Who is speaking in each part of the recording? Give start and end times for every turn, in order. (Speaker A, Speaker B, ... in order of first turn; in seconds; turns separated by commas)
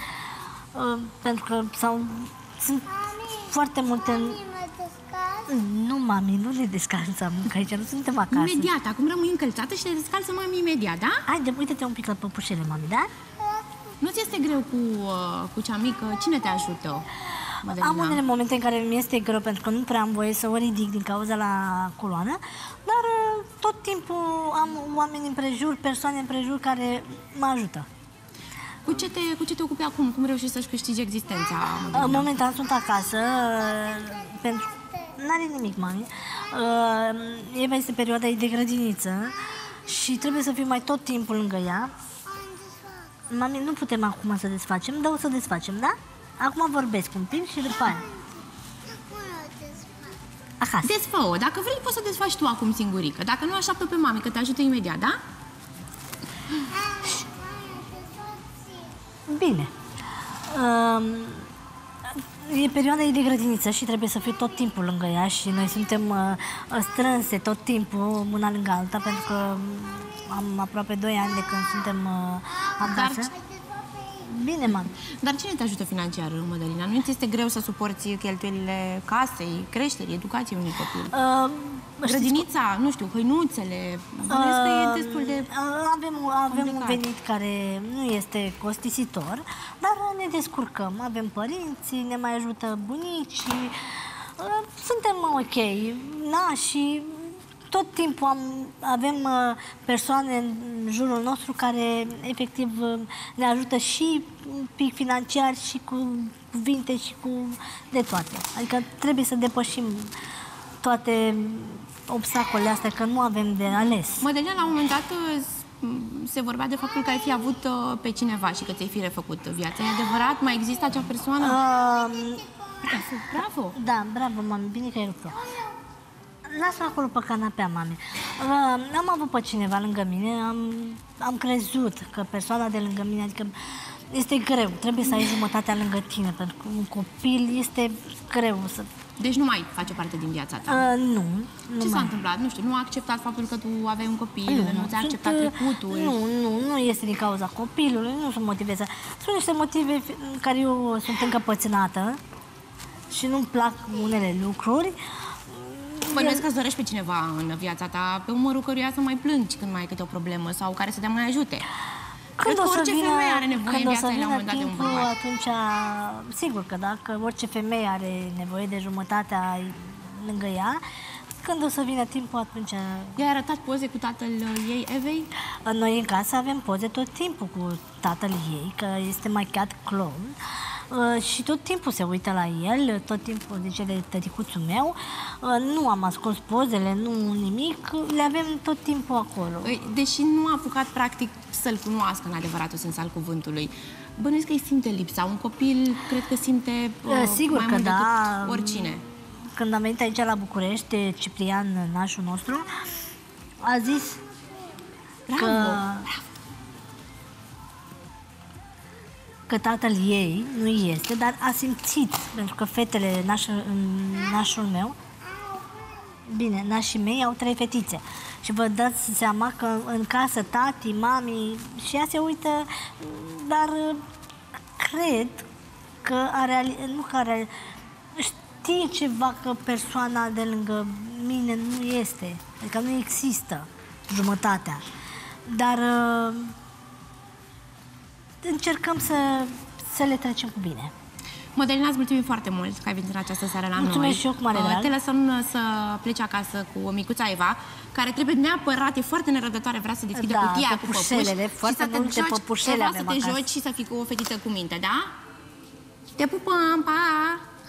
Speaker A: 0.8-4.4, Speaker B: 4.4-5.4, Speaker A: 5.5-8.7, Speaker C: 8.3-11.2, Speaker A: 11.3-13.1, Speaker B: 13.5-13.8, Speaker C: 14.0-17.1, Speaker C: 17.6-18.2, Speaker A: 17.7-27.9, Speaker C: 28.9-32.3, Speaker A: 31.9-41.9, Speaker B: 42.3-43.1, Speaker A: 43.3-48.1, Speaker B: 48.9-50.2, Speaker A: 50.6-50.9, Speaker C: 50.8-55.2, Speaker B: 56.8-58.9, Speaker A: 59.3-59.7, Speaker A: 60.5-61.5, Speaker A: 62.4-73.3, Speaker C: 72.8-73.3, Speaker B: 73.5-74.0, Speaker A: 74.2-74.9, Speaker C: 75.2-81.1, Speaker A: 81.1-82.5, Speaker C: 82.0-85.5, Speaker A: 84.3-93.7, Speaker C: 86.5-87.0, Speaker A: 94.4-110.1, Speaker A: 110.8-114.3, Speaker C: 114.2-121.6, Speaker A: 121.4-123.0, Speaker C: 122.8-123.8, Speaker A: 123.7-125.5, Speaker A: 126.5-133.5, Speaker A: 134.1-138.9, Speaker C: 139.2-140.9, Speaker A: 140.7-142.1, Speaker C: 141.8-146.2, Speaker A: 144.5-152.2, Speaker A: 153.1-155.0, Speaker A: 155.5-156.5, Speaker C: 156.1-161.7, Speaker A: 162.4-170.8, Speaker C: 162.4-165.1, Speaker A: 171.4-173.2, Speaker C: 173.2-175.3, Speaker A: 175.7-180.3, Speaker A: 180.9-189.8, Speaker C: 189.7-199.0, Speaker A: 197.1-202.7, Speaker A: 203.6-204.2, Speaker C: 205.3-206.2, Speaker A: 205.3-206.1, Speaker A: 209.5-215.0, Speaker A: 216.3-224.0, Speaker A: 224.8-225.5, Speaker A: 226.0-227.5, Speaker A: 228.2-234.8, Speaker A: 235.5-236.5, Speaker A: 238.4-240.9, Speaker C: 241.6-255.1, Speaker A: 243.8-244.9, Speaker A: 250.2-253.5, Speaker C: 256.2-257.4